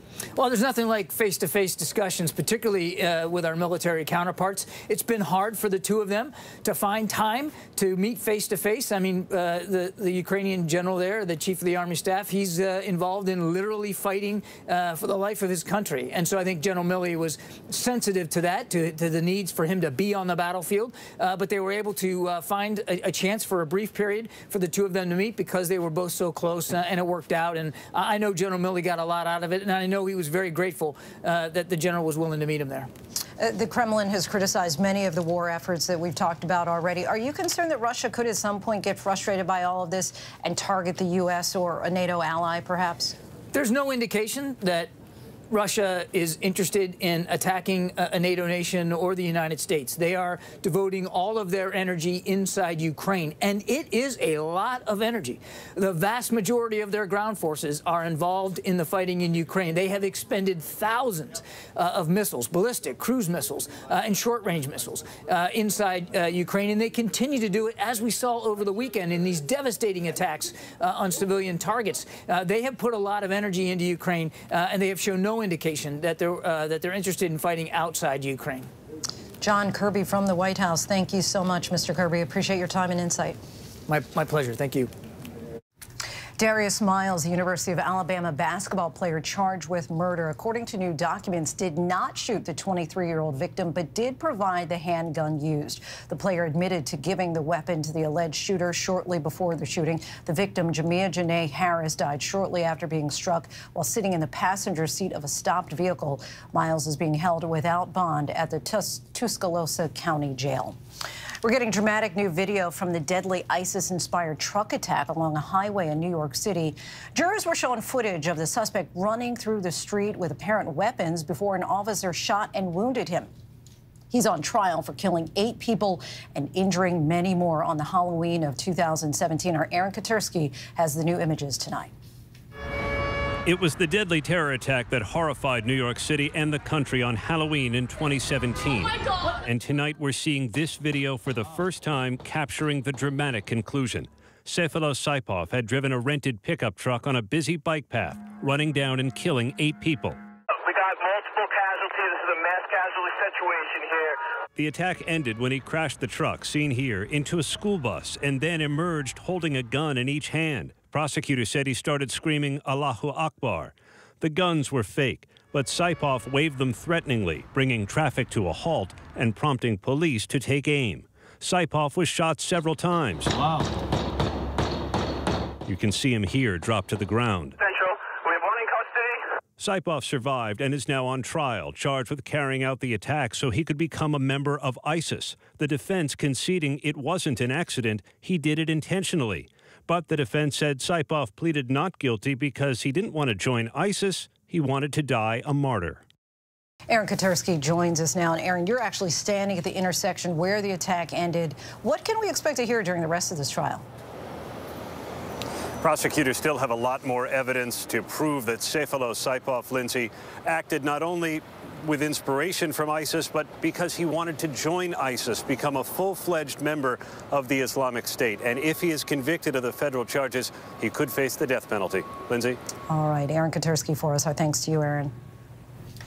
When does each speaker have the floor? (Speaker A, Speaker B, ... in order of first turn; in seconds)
Speaker A: 0.4-32.9, 43.5-44.9, 45.5-78.7, 83.9-84.9
Speaker B: 33.4-43.1, 79.4-83.4, 86.4-110.8, 111.4-123.3, 124.1-131.9, 196.9-203.8, 222.9-225.1
Speaker C: 133.4-150.2, 154.6-173.3, 175.7-177.6, 179.6-196.0, 205.8-222.6
Speaker D: 150.5-154.2, 177.6-179.2